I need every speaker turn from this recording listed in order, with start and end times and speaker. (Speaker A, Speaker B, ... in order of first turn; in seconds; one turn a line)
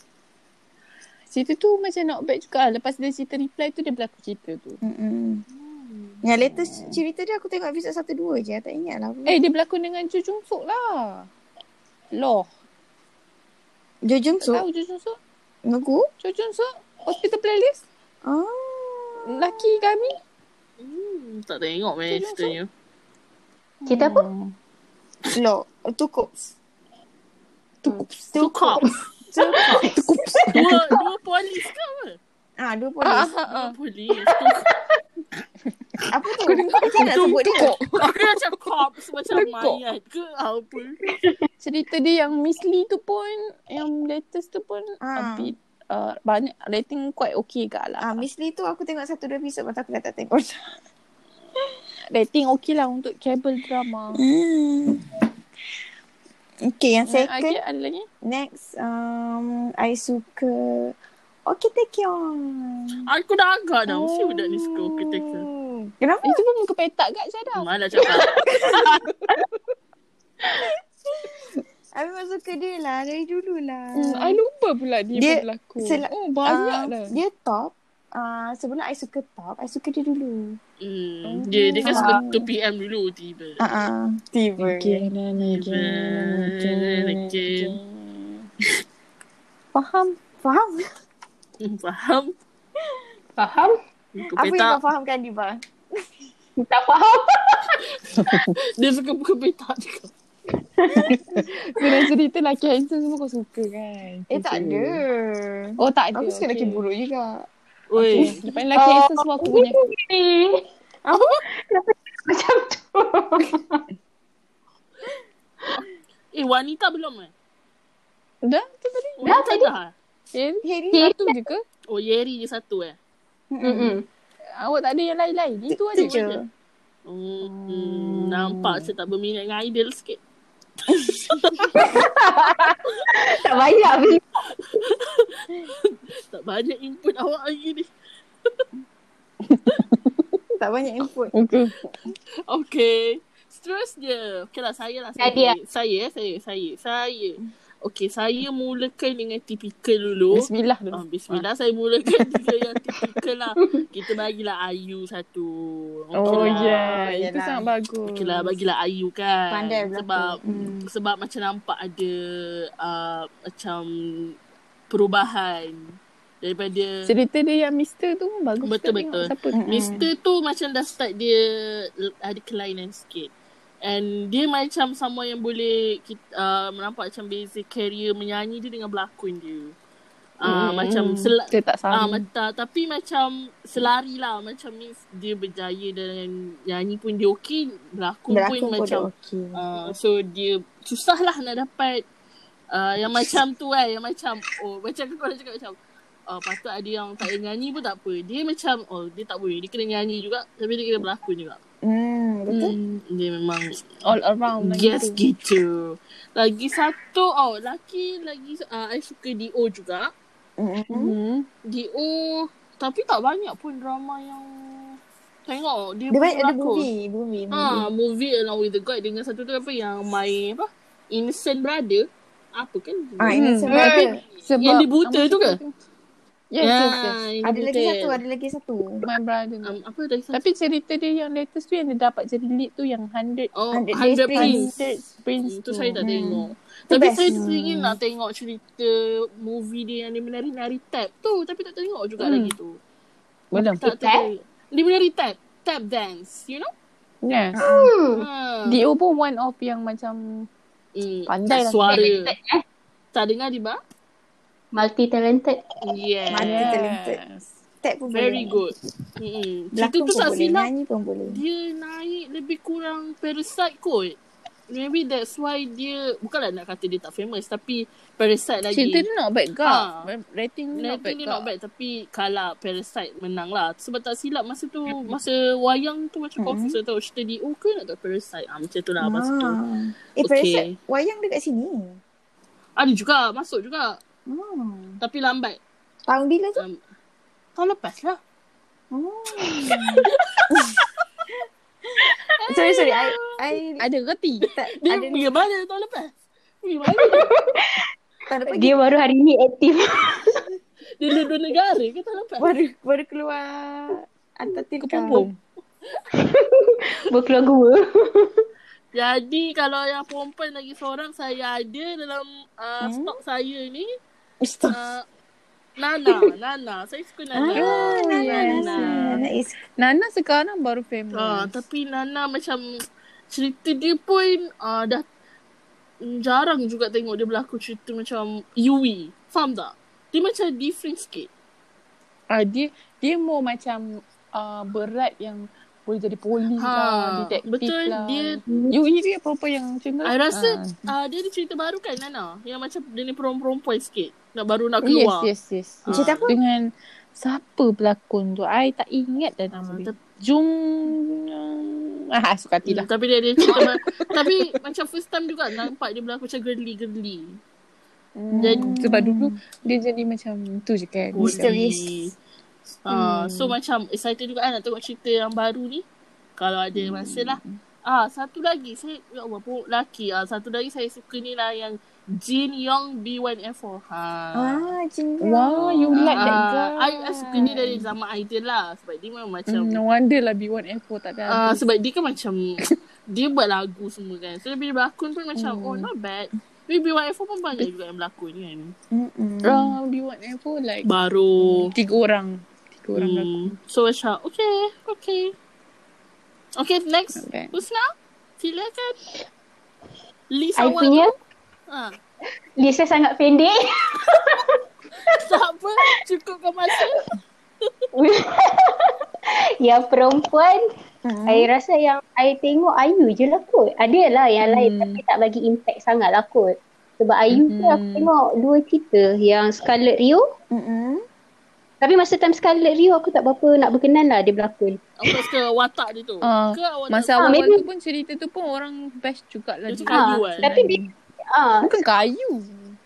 Speaker A: 1.3-4.8
Speaker B: 4.8-5.4
Speaker C: 5.5-6.2
Speaker B: 6.2-9.3
Speaker A: 6.5-7.0
Speaker A: 9.2-11.3
Speaker A: 12.1-12.5
Speaker B: 14.0-14.6
Speaker A: 14.4-15.2
Speaker B: 15.6-16.1
Speaker A: 16.2-17.8
Speaker B: 18.2-19.7
Speaker A: 19.2-20.1
Speaker C: 20.8-22.7
Speaker A: 22.1-22.6
Speaker A: 23.8-24.5
Speaker D: 23.9-24.2
Speaker B: 25.3-26.5
Speaker A: 27.8-28.4
Speaker C: 28.3-28.9
Speaker B: 29.3-29.9
Speaker D: 29.5-29.9
Speaker A: 29.6-30.7
Speaker C: 30.5-32.2
Speaker B: 32.6-33.3
Speaker A: 33.0-33.7
Speaker C: 33.5-34.6
Speaker D: 34.2-35.0
Speaker B: 36.1-37.8
Speaker A: 36.4-38.1
Speaker C: 37.5-41.0
Speaker A: 39.3-39.8
Speaker D: 41.1-41.4
Speaker A: 41.6-48.3
Speaker B: 45.0-45.5
Speaker B: 48.0-50.7
Speaker A: 52.1-54.2
Speaker B: 54.1-55.0
Speaker B: 56.6-57.6
Speaker A: 57.1-58.1
Speaker B: 58.2-60.9
Speaker B: 61.5-63.1
Speaker C: 63.0-65.5
Speaker B: 63.9-66.4
Speaker A: 66.2-69.4
Speaker C: 67.5-68.7
Speaker B: 68.5-68.8
Speaker B: 70.6-74.4
Speaker A: 74.0-77.2
Speaker B: 75.2-80.6
Speaker C: 80.8-83.6
Speaker A: 81.3-82.2
Speaker B: 81.8-82.4
Speaker B: 83.6-85.1
Speaker A: 84.6-88.4
Speaker C: 85.4-87.8
Speaker B: 89.7-90.9
Speaker C: 91.6-92.3
Speaker D: 93.4-93.7
Speaker C: 94.1-94.8
Speaker B: 94.3-95.6
Speaker D: 96.6-98.0
Speaker A: 98.2-98.5
Speaker C: 98.8-100.1
Speaker D: 100.6-101.9
Speaker B: 100.9-101.2
Speaker A: 101.3-105.0
Speaker B: 104.3-107.5
Speaker A: 105.8-106.8
Speaker C: 107.9-108.3
Speaker A: 108.0-109.8
Speaker B: 108.1-108.4
Speaker D: 108.7-113.8
Speaker B: 111.0-111.4
Speaker C: 116.3-117.3
Speaker A: 118.4-119.3
Speaker C: 119.2-119.9
Speaker D: 119.2-119.7
Speaker A: 120.3-121.6
Speaker B: 120.6-121.1
Speaker D: 121.0-121.3
Speaker C: 121.9-123.0
Speaker B: 123.5-124.0
Speaker D: 123.6-124.0
Speaker A: 124.6-126.2
Speaker B: 125.7-126.4
Speaker C: 126.0-126.4
Speaker C: 127.0-130.2
Speaker A: 127.4-128.9
Speaker B: 130.9-131.2
Speaker C: 130.9-131.8
Speaker D: 131.8-134.2
Speaker C: 134.6-137.9
Speaker A: 139.4-140.2
Speaker B: 140.6-141.3
Speaker A: 141.3-141.9
Speaker C: 142.5-157.1
Speaker D: 145.2-145.5
Speaker A: 150.3-151.4
Speaker A: 156.1-158.5
Speaker B: 156.3-157.7
Speaker C: 158.1-164.3
Speaker B: 159.5-160.9
Speaker C: 164.9-167.0
Speaker A: 167.1-169.6
Speaker C: 168.6-173.3
Speaker B: 169.5-170.1
Speaker C: 173.8-179.7
Speaker C: 180.4-192.0
Speaker A: 180.4-182.2
Speaker B: 188.3-189.6
Speaker C: 192.7-195.8
Speaker C: 196.3-201.6
Speaker B: 201.8-202.7
Speaker C: 202.5-203.9
Speaker A: 204.1-205.2
Speaker C: 204.6-210.1
Speaker B: 210.6-211.1
Speaker A: 210.9-211.5
Speaker C: 211.7-216.9
Speaker B: 216.1-217.9
Speaker C: 217.5-225.6
Speaker B: 223.2-224.1
Speaker A: 223.3-223.8
Speaker D: 223.7-224.2
Speaker A: 224.4-225.7
Speaker A: 226.5-227.2
Speaker C: 226.6-228.2
Speaker B: 227.4-229.0
Speaker A: 229.0-229.7
Speaker C: 229.7-230.4
Speaker A: 230.3-233.5
Speaker C: 233.5-234.7
Speaker B: 233.7-234.7
Speaker A: 234.4-236.0
Speaker C: 235.4-242.8
Speaker B: 236.0-237.9
Speaker A: 242.2-242.5
Speaker A: 243.5-243.8
Speaker C: 243.8-246.7
Speaker D: 243.8-244.3
Speaker A: 247.2-247.6
Speaker B: 247.5-247.9
Speaker D: 247.6-248.2
Speaker C: 248.2-248.8
Speaker A: 248.7-250.2
Speaker C: 250.9-252.3
Speaker A: 251.3-252.2
Speaker D: 251.9-252.6
Speaker C: 253.1-253.8
Speaker D: 254.7-255.6
Speaker C: 255.8-256.8
Speaker B: 256.3-257.2
Speaker A: 256.4-257.5
Speaker B: 257.8-258.6
Speaker C: 258.1-260.7
Speaker B: 259.7-261.4
Speaker C: 261.3-264.2
Speaker C: 264.7-269.1
Speaker A: 268.7-271.5
Speaker C: 269.6-270.1
Speaker C: 270.7-279.6
Speaker B: 276.4-276.8
Speaker B: 279.0-282.0
Speaker C: 280.2-280.7
Speaker C: 282.8-284.0
Speaker B: 284.3-285.0
Speaker C: 285.0-285.6
Speaker B: 286.1-286.6
Speaker C: 287.6-288.2
Speaker B: 288.9-290.8
Speaker C: 290.2-290.4
Speaker B: 291.9-293.9
Speaker A: 293.8-294.5
Speaker B: 294.5-295.3
Speaker C: 294.8-297.4
Speaker D: 297.0-297.8
Speaker B: 298.3-298.8
Speaker D: 298.5-300.4
Speaker C: 301.0-302.5
Speaker B: 302.4-305.2
Speaker A: 304.8-305.4
Speaker D: 306.1-308.4
Speaker C: 308.9-313.9
Speaker B: 312.8-313.2
Speaker B: 314.4-314.8
Speaker C: 314.7-315.0
Speaker C: 315.8-319.2
Speaker B: 317.3-319.6
Speaker A: 317.5-319.2
Speaker A: 319.8-321.5
Speaker C: 321.1-322.6
Speaker C: 323.3-325.0
Speaker C: 326.0-331.3
Speaker A: 332.3-340.8
Speaker C: 336.6-338.4
Speaker D: 338.5-338.7
Speaker C: 340.0-345.3
Speaker A: 344.8-352.9
Speaker C: 345.8-346.4
Speaker B: 345.9-346.3
Speaker C: 349.5-349.9
Speaker C: 352.6-357.4
Speaker D: 353.4-354.1
Speaker A: 358.2-361.5
Speaker B: 358.3-359.4
Speaker C: 358.4-358.7
Speaker C: 361.1-362.1
Speaker B: 361.2-362.1
Speaker C: 362.8-365.8
Speaker C: 366.4-374.7
Speaker B: 366.8-367.4
Speaker B: 374.3-376.4
Speaker A: 375.2-377.6
Speaker C: 375.6-379.8
Speaker B: 377.3-377.7
Speaker A: 379.5-381.6
Speaker C: 381.3-388.7
Speaker A: 385.4-385.8
Speaker B: 388.9-389.8
Speaker A: 389.4-390.9
Speaker C: 390.8-391.7
Speaker A: 391.4-393.5
Speaker C: 392.9-395.3
Speaker C: 396.6-397.9
Speaker A: 397.1-397.6
Speaker C: 398.4-399.1
Speaker C: 400.3-401.1
Speaker D: 400.6-401.1
Speaker C: 401.7-401.9
Speaker D: 402.6-405.2
Speaker C: 405.1-407.1
Speaker D: 407.9-410.6
Speaker B: 411.0-411.5
Speaker D: 411.3-420.2
Speaker A: 414.4-415.0
Speaker A: 417.3-418.1
Speaker B: 420.5-421.0
Speaker D: 421.8-425.2
Speaker C: 425.0-427.2
Speaker A: 426.2-430.9
Speaker D: 427.2-427.6
Speaker C: 429.7-430.4
Speaker D: 429.9-430.8
Speaker D: 431.3-431.7
Speaker A: 431.6-432.8